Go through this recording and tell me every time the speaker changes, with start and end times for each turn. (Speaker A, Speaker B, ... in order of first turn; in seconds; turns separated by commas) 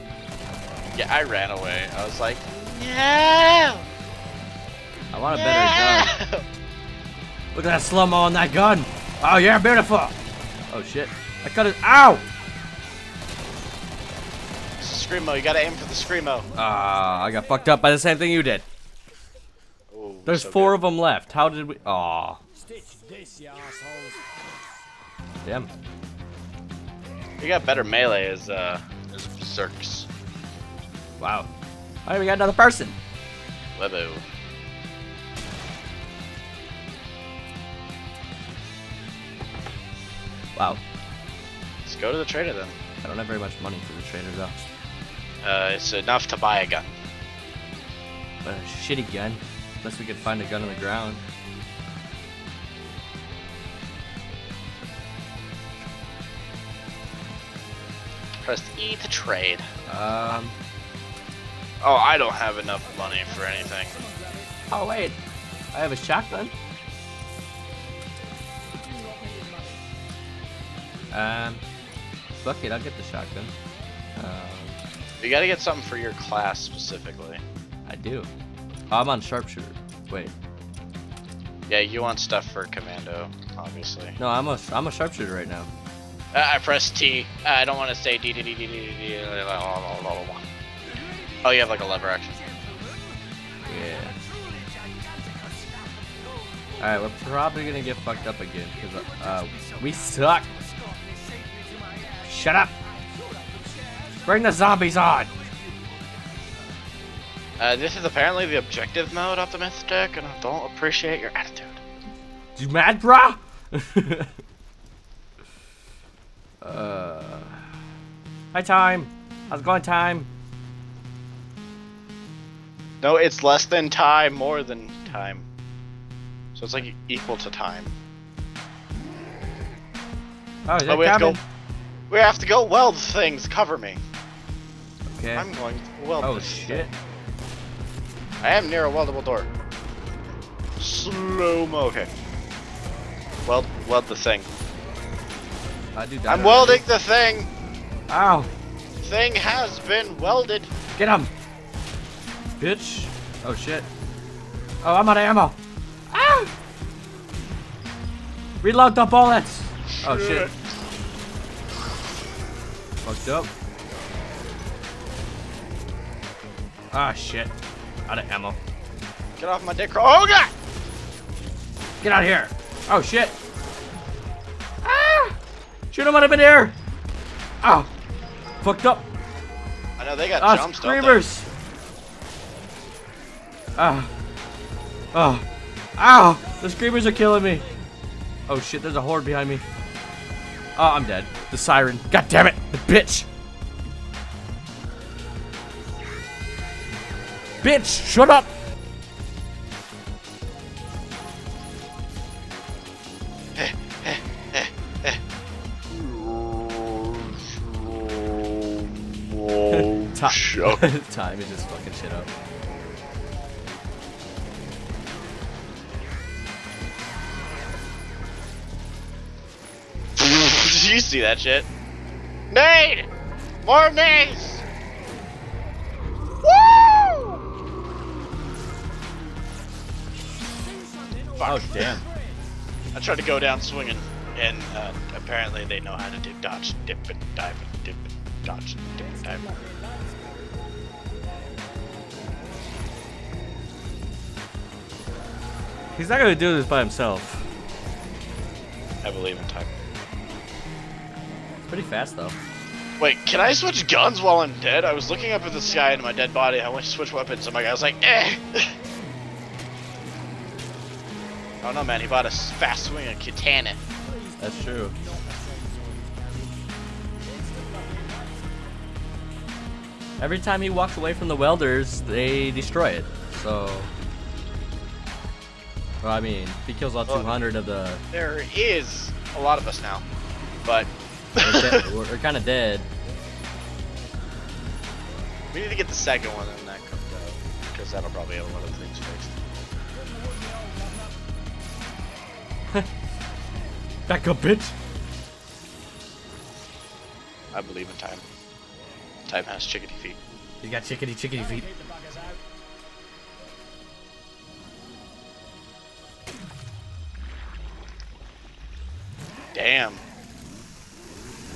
Speaker A: 0.9-3.9, Speaker B: 5.1-6.1, Speaker A: 5.3-6.4, Speaker B: 7.5-10.1, Speaker B: 10.7-12.2, Speaker A: 14.8-16.5, Speaker B: 16.6-18.7, Speaker A: 19.9-20.8, Speaker B: 20.3-22.4, Speaker C: 22.8-24.2, Speaker A: 27.4-30.1, Speaker B: 31.2-31.5, Speaker B: 32.1-33.0, Speaker A: 33.8-34.3, Speaker A: 41.9-42.8, Speaker B: 43.0-44.6, Speaker A: 45.4-47.0, Speaker B: 48.4-51.2, Speaker A: 58.4-59.6, Speaker B: 59.9-60.6, Speaker A: 61.8-64.0, Speaker C: 64.0-64.5, Speaker B: 64.7-65.2, Speaker B: 65.7-66.5, Speaker C: 68.9-69.8, Speaker B: 71.1-71.6, Speaker B: 72.4-73.5, Speaker B: 74.2-74.8, Speaker A: 75.2-77.4, Speaker B: 77.9-78.3, Speaker B: 78.9-80.3, Speaker A: 81.7-84.2, Speaker B: 84.2-85.7, Speaker A: 86.3-90.5, Speaker A: 91.3-92.4, Speaker B: 93.7-94.2, Speaker B: 96.8-100.5, Speaker B: 102.2-102.7, Speaker B: 104.2-105.3, Speaker A: 107.6-111.8, Speaker B: 112.6-114.3, Speaker B: 116.6-117.6, Speaker B: 118.5-120.3, Speaker A: 123.0-125.5, Speaker A: 126.5-127.9, Speaker B: 130.7-131.4, Speaker A: 130.9-131.4, Speaker A: 132.1-134.0, Speaker B: 135.1-135.5, Speaker A: 135.4-136.9, Speaker B: 136.2-136.9, Speaker A: 138.4-139.5, Speaker A: 140.8-142.1, Speaker A: 143.5-144.5, Speaker B: 145.9-146.8, Speaker A: 146.3-147.5, Speaker B: 148.1-148.5, Speaker A: 149.0-150.7, Speaker B: 151.0-151.3, Speaker B: 152.6-153.9, Speaker B: 154.8-155.6, Speaker B: 156.1-156.5, Speaker B: 158.6-160.5, Speaker A: 160.0-160.6, Speaker B: 163.0-163.5, Speaker B: 166.9-167.5, Speaker B: 168.1-168.6, Speaker A: 169.4-170.5, Speaker B: 172.0-173.3, Speaker B: 174.8-175.4, Speaker B: 175.9-176.8, Speaker B: 177.6-177.9, Speaker B: 178.6-179.1, Speaker A: 180.0-181.2, Speaker B: 180.4-181.5, Speaker B: 183.8-184.1, Speaker B: 185.1-185.4, Speaker B: 186.0-187.7, Speaker B: 188.5-189.7, Speaker B: 190.8-193.3, Speaker B: 197.6-198.5, Speaker A: 203.6-205.2, Speaker A: 205.9-210.9, Speaker B: 209.7-212.3, Speaker A: 220.2-221.7, Speaker A: 222.5-223.1, Speaker A: 223.6-224.6, Speaker A: 226.4-227.4, Speaker C: 231.0-231.9, Speaker A: 231.4-231.8, Speaker B: 231.4-232.1, Speaker A: 232.9-239.5, Speaker C: 239.4-240.3, Speaker B: 246.0-247.5, Speaker A: 249.0-249.7, Speaker B: 251.7-252.4, Speaker A: 253.0-258.7, Speaker A: 261.6-263.8, Speaker C: 264.1-266.6, Speaker B: 264.4-265.0, Speaker C: 267.3-268.4, Speaker B: 270.2-273.9, Speaker B: 276.0-278.0, Speaker A: 277.1-277.4, Speaker A: 278.1-280.1, Speaker A: 280.6-281.9, Speaker B: 281.4-282.9, Speaker A: 285.5-289.4, Speaker C: 290.4-290.8, Speaker B: 294.1-294.8, Speaker A: 297.5-298.2, Speaker A: 299.3-300.2, Speaker B: 300.6-301.7, Speaker C: 301.6-302.4, Speaker A: 309.5-310.0